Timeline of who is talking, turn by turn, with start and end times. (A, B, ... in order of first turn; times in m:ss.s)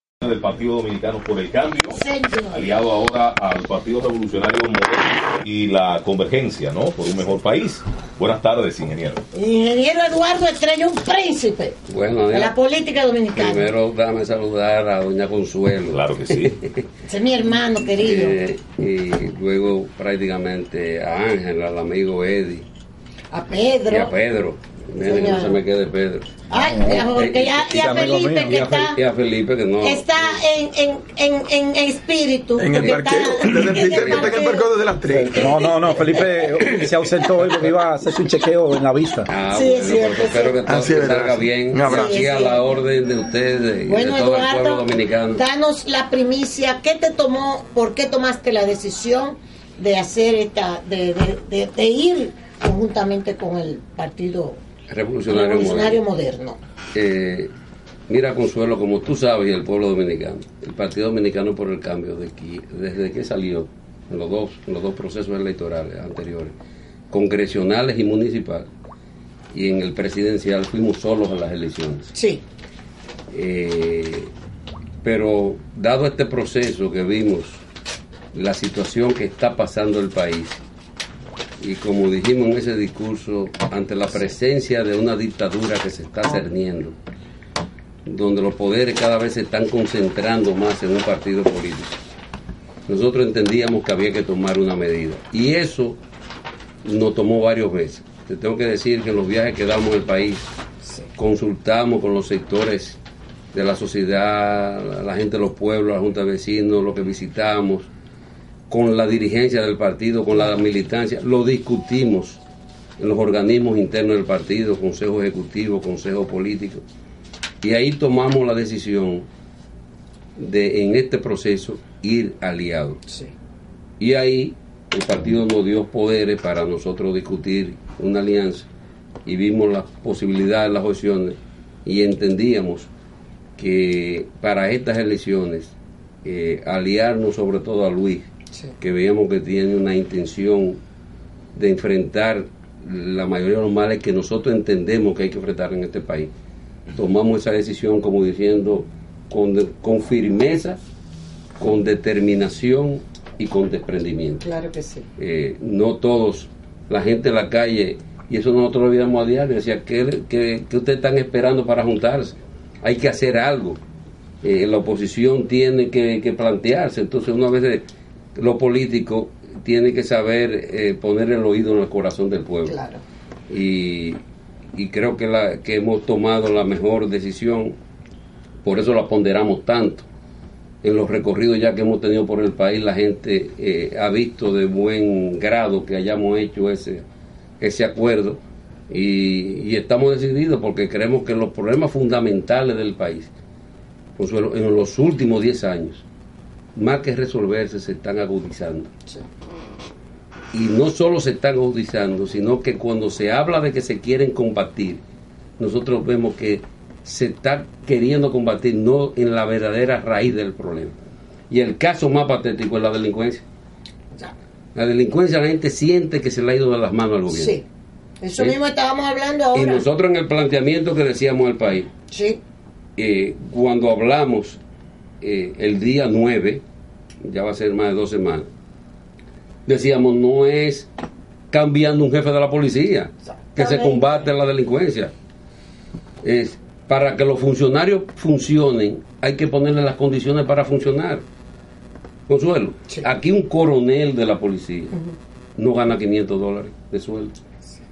0:00.2-0:02.0 A
0:01.9-0:02.7 B
0:02.5-0:09.2 A
0:09.3-0:11.8 B
0:11.9-0:12.6 C
0:12.3-0:13.7 B
0:13.4-0:16.8 C
0:15.9-0:16.6 A
0:17.1-0:18.4 B
0:18.0-0:22.6 C
0:23.3-0:24.1 B
0:23.9-0:26.3 C
0:25.0-0:25.6 B
0:26.5-0:29.0 B
0:26.5-0:28.6 D
0:26.9-0:30.4 C
0:29.8-0:34.7 B
0:32.6-0:35.5 E
0:32.8-0:34.4 C
0:35.1-0:39.3 D
0:36.6-0:37.7 C
0:39.3-0:45.4 C
0:39.5-0:40.6 B
0:40.7-0:42.2 E
0:41.9-0:42.6 B
0:43.9-0:54.6 B
0:54.9-0:56.0 C
0:55.3-0:56.6 B
0:57.0-0:57.5 C
0:58.1-1:06.5 C
1:07.1-1:08.7 C
1:09.5-1:12.1 C
1:12.1-1:12.4 B
1:13.3-1:14.3 C
1:15.0-1:17.6 C
1:18.3-1:20.6 C
1:21.6-1:27.0 C
1:28.0-1:32.0 C
1:32.9-1:36.0 C
1:36.8-1:40.4 C
1:41.2-1:43.0 C
1:43.5-1:47.9 C
1:48.7-1:52.4 C
1:53.0-1:56.8 C
1:57.6-1:59.2 C
2:00.4-2:03.0 C
2:04.0-2:08.6 C
2:09.2-2:12.9 C
2:13.6-2:15.7 C
2:16.2-2:18.3 C
2:18.8-2:20.8 C
2:21.6-2:26.3 C
2:26.9-2:30.8 C
2:31.6-2:34.4 C
2:34.4-2:35.1 B
2:35.2-2:43.8 C
2:44.4-2:47.8 C
2:48.4-2:52.8 C
2:52.6-2:53.0 B
2:53.5-2:54.2 C
2:54.8-2:57.8 C
2:58.6-3:00.0 C
3:00.8-3:07.0 C
3:07.6-3:13.3 C
3:14.2-3:16.0 C
3:16.8-3:18.9 C
3:20.5-3:25.0 C
3:25.6-3:30.9 C
3:31.5-3:33.4 C
3:34.8-3:37.6 C
3:37.3-3:37.6 B
3:38.2-3:39.8 B
3:39.6-3:41.9 C
3:42.1-3:42.4 B
3:43.0-3:44.6 C
3:45.2-3:46.6 C
3:47.2-3:48.5 C
3:49.6-3:50.9 C
3:51.5-3:55.1 C
3:53.3-3:54.3 B
3:56.2-4:01.2 C
4:02.3-4:04.9 C
4:05.6-4:07.3 C